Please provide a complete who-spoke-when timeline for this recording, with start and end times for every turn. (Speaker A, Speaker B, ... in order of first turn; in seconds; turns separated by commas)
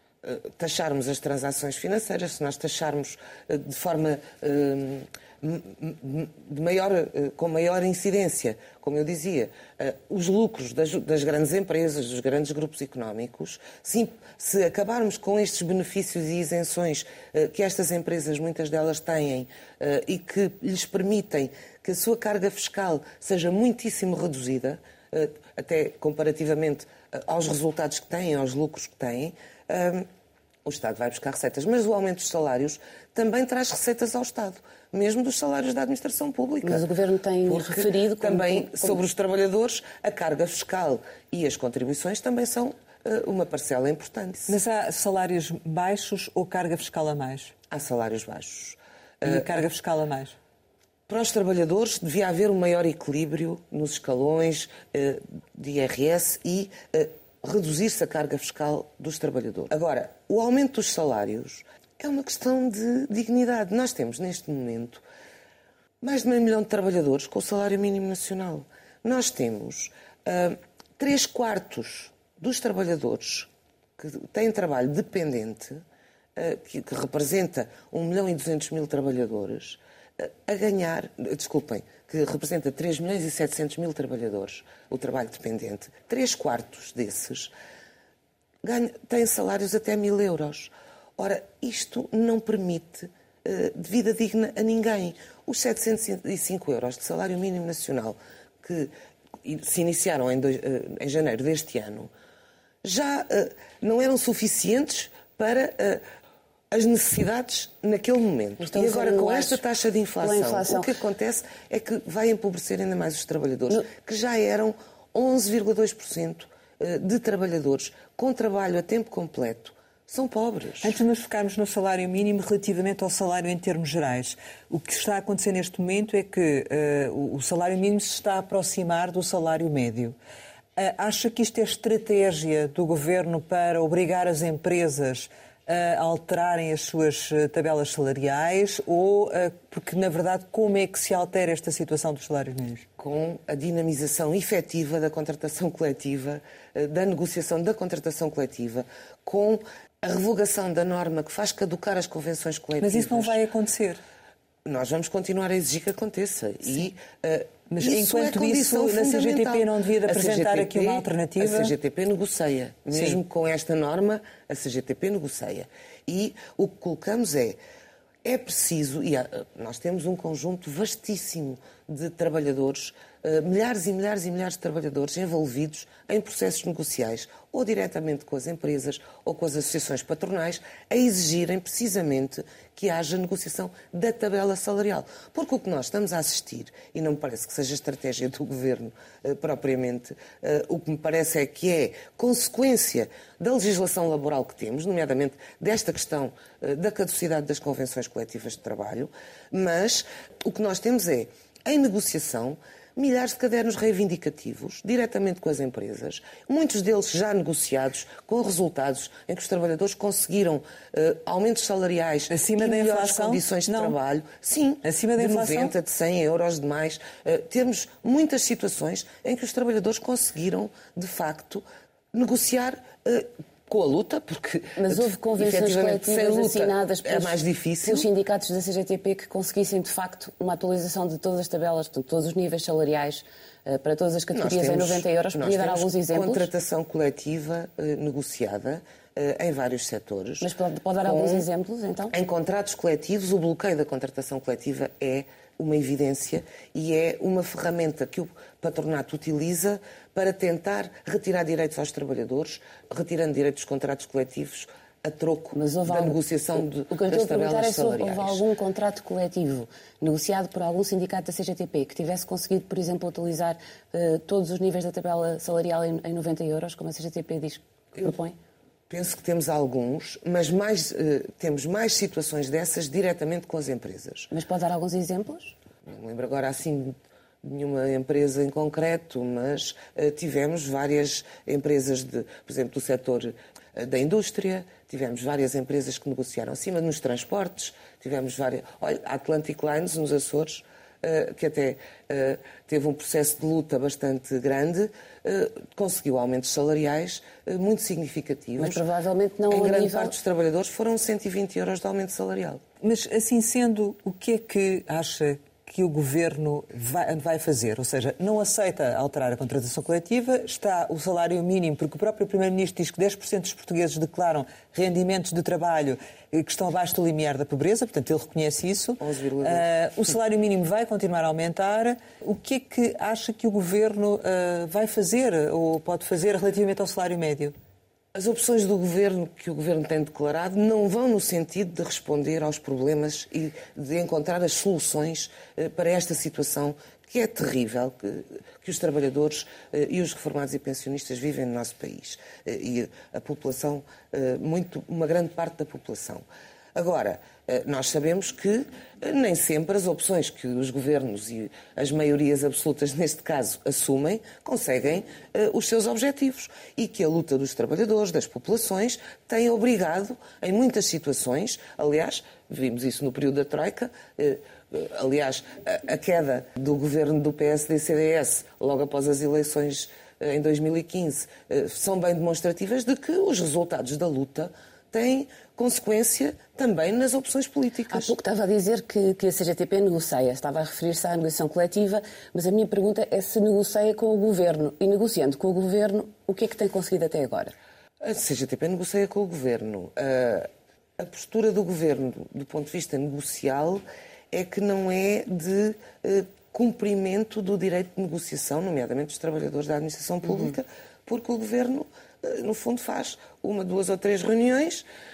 Speaker A: 0.2-30.1, Speaker A: 30.6-36.8, Speaker B: 36.6-39.0, Speaker A: 37.4-44.6, Speaker C: 44.5-47.5, Speaker A: 47.7-49.5, Speaker C: 49.2-50.3, Speaker A: 51.1-65.0, Speaker A: 66.0-75.8, Speaker A: 76.3-87.5, Speaker A: 88.6-98.9, Speaker A: 99.4-102.1, Speaker A: 102.8-106.0, Speaker A: 106.7-121.0, Speaker B: 108.6-109.6, Speaker B: 110.2-110.9, Speaker C: 120.8-130.1, Speaker C: 130.8-142.8, Speaker A: 143.0-153.4, Speaker C: 152.8-154.0, Speaker A: 154.6-167.6, Speaker C: 157.7-161.7, Speaker A: 168.2-228.1, Speaker C: 212.3-213.9, Speaker C: 214.8-215.7, Speaker B: 224.8-236.5, Speaker A: 234.3-240.5, Speaker B: 240.4-242.1, Speaker A: 241.0-241.4, Speaker A: 242.1-258.4, Speaker B: 255.5-268.4, Speaker A: 268.9-274.3, Speaker B: 274.3-275.5, Speaker A: 275.9-298.8, Speaker B: 298.6-300.1, Speaker A: 299.5-302.6, Speaker C: 302.8-327.5, Speaker A: 319.0-319.6, Speaker A: 328.1-346.2, Speaker A: 346.7-378.1, Speaker B: 377.9-387.5, Speaker A: 388.0-404.8